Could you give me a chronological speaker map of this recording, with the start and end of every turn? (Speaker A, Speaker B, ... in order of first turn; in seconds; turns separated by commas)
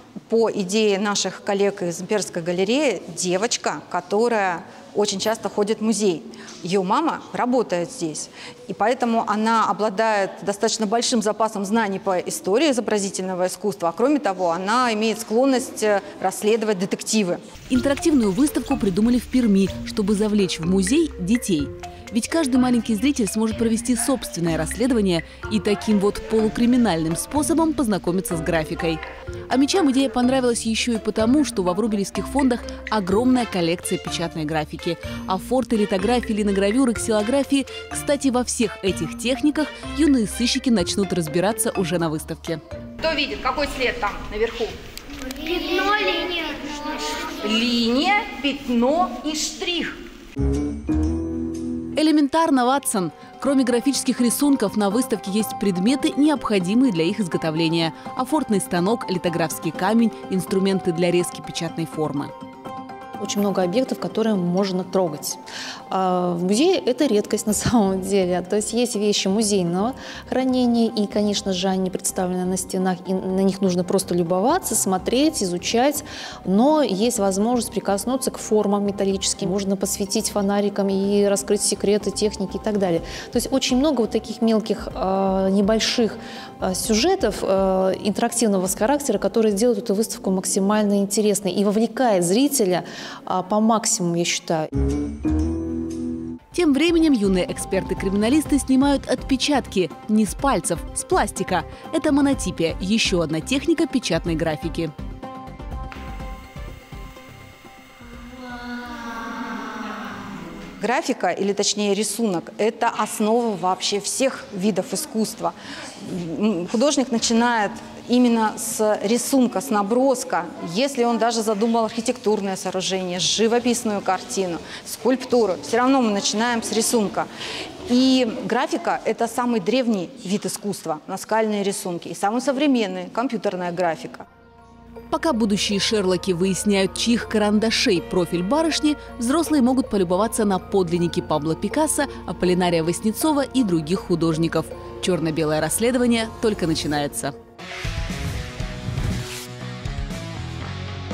Speaker A: 0.3-17.4, Speaker B: 17.7-42.6, Speaker A: 43.0-44.7, Speaker A: 45.4-46.6, Speaker A: 47.4-50.0, Speaker B: 52.0-62.3, Speaker C: 63.2-94.7, Speaker B: 96.5-104.9, Speaker A: 110.8-127.3, Speaker A: 127.9-134.2, Speaker B: 135.1-147.3